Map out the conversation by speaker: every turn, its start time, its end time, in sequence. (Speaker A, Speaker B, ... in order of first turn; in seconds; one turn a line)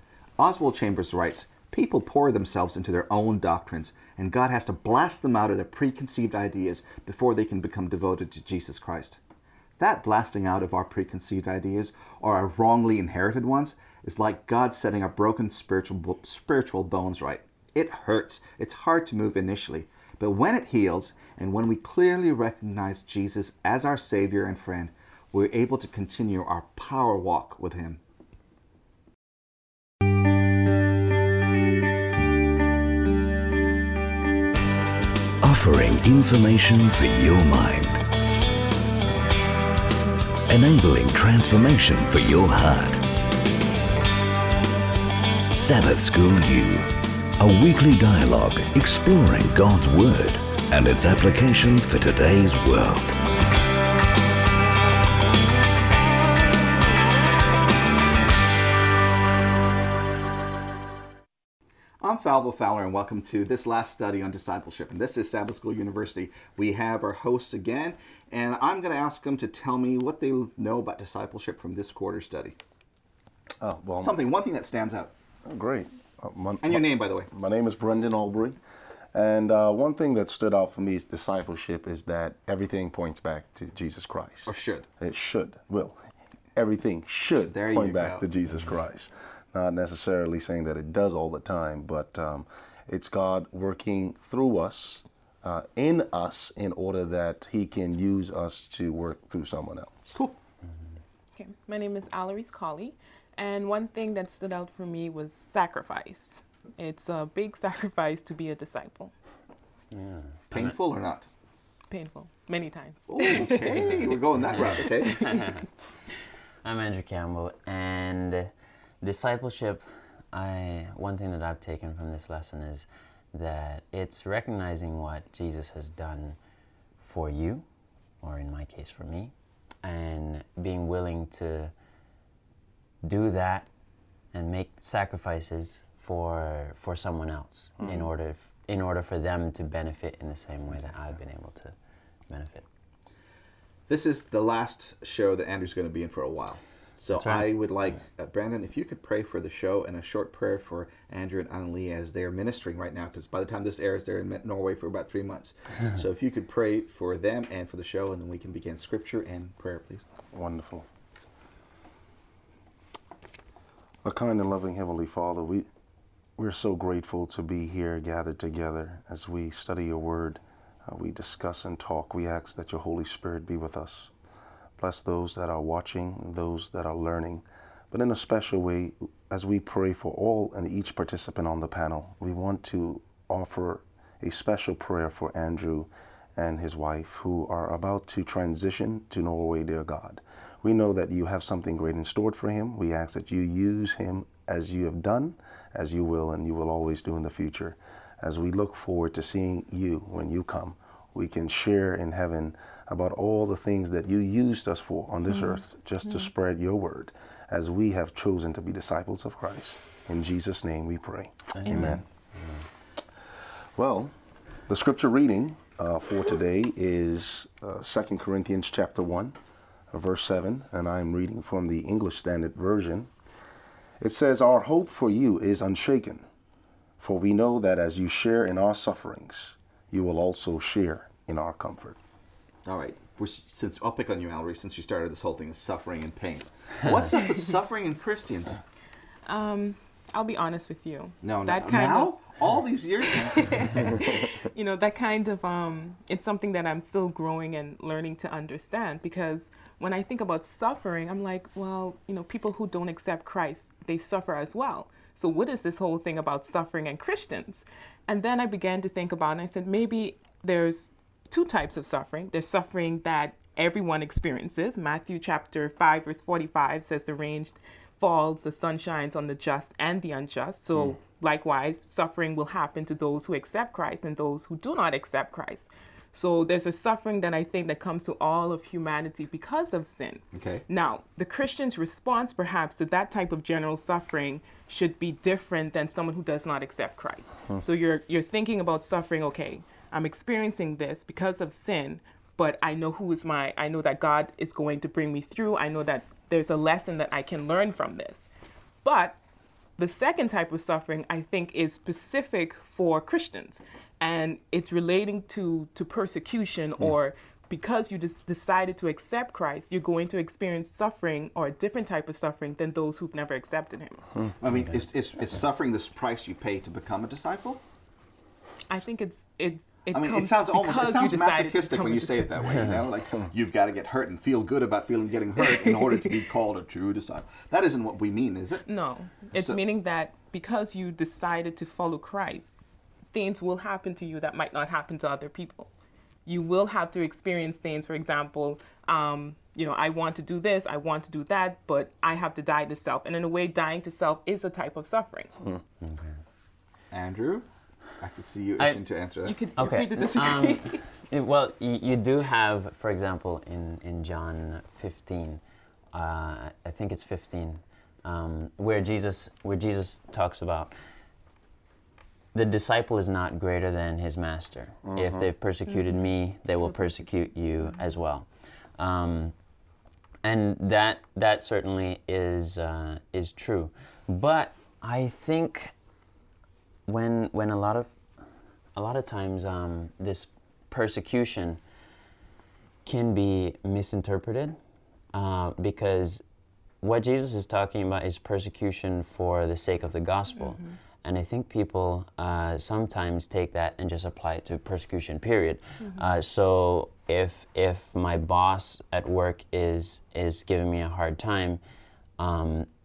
Speaker A: 0.4-9.2
Speaker A: 9.8-28.0
Speaker B: 35.4-38.0
Speaker B: 40.5-43.0
Speaker B: 45.5-46.9
Speaker B: 47.4-53.2
Speaker A: 62.0-72.6
Speaker C: 73.6-74.2
Speaker A: 74.0-75.1
Speaker C: 75.4-78.6
Speaker A: 76.6-77.3
Speaker C: 79.1-86.0
Speaker A: 84.5-84.9
Speaker C: 86.5-100.2
Speaker A: 87.5-88.3
Speaker D: 101.3-109.1
Speaker E: 109.9-110.7
Speaker A: 110.5-111.2
Speaker D: 111.9-113.9
Speaker A: 113.1-115.4
Speaker D: 115.1-115.5
Speaker E: 116.6-118.5
Speaker E: 119.0-126.4
Speaker E: 127.0-127.6
Speaker E: 128.2-129.3
Speaker E: 129.8-131.7
Speaker E: 133.0-133.7
Speaker E: 134.3-141.7
Speaker E: 142.3-142.6
Speaker A: 143.9-160.1
Speaker E: 147.2-147.5
Speaker C: 160.3-160.9
Speaker C: 164.0-165.7
Speaker C: 166.4-174.1
Speaker C: 174.8-212.0
Speaker D: 205.3-206.3
Speaker E: 211.6-212.0
Speaker D: 211.7-212.0
Speaker C: 213.7-214.1
Speaker C: 214.7-219.4
Speaker C: 219.9-223.1
Speaker C: 224.0-226.2
Speaker C: 227.0-232.0
Speaker A: 232.7-238.6
Speaker D: 239.2-242.1
Speaker A: 241.2-244.0
Speaker D: 243.2-298.3
Speaker A: 280.3-280.6
Speaker D: 298.8-299.2
Speaker D: 299.8-314.0
Speaker A: 314.4-317.6
Speaker D: 318.7-322.3
Speaker A: 319.9-328.7
Speaker D: 328.6-332.6
Speaker A: 329.3-329.6
Speaker D: 333.1-335.7
Speaker D: 336.2-345.3
Speaker E: 345.8-346.2
Speaker A: 346.9-347.4
Speaker A: 348.0-349.4
Speaker D: 349.2-350.8
Speaker E: 349.6-355.4
Speaker E: 355.9-360.7
Speaker E: 362.3-368.2
Speaker C: 364.8-365.3
Speaker E: 368.8-369.3
Speaker E: 370.2-375.7
Speaker E: 376.9-377.9
Speaker E: 378.8-381.6
Speaker E: 382.8-384.6
Speaker E: 385.1-386.2
Speaker E: 386.8-401.6
Speaker D: 390.4-390.7
Speaker D: 395.8-396.1
Speaker E: 402.2-402.7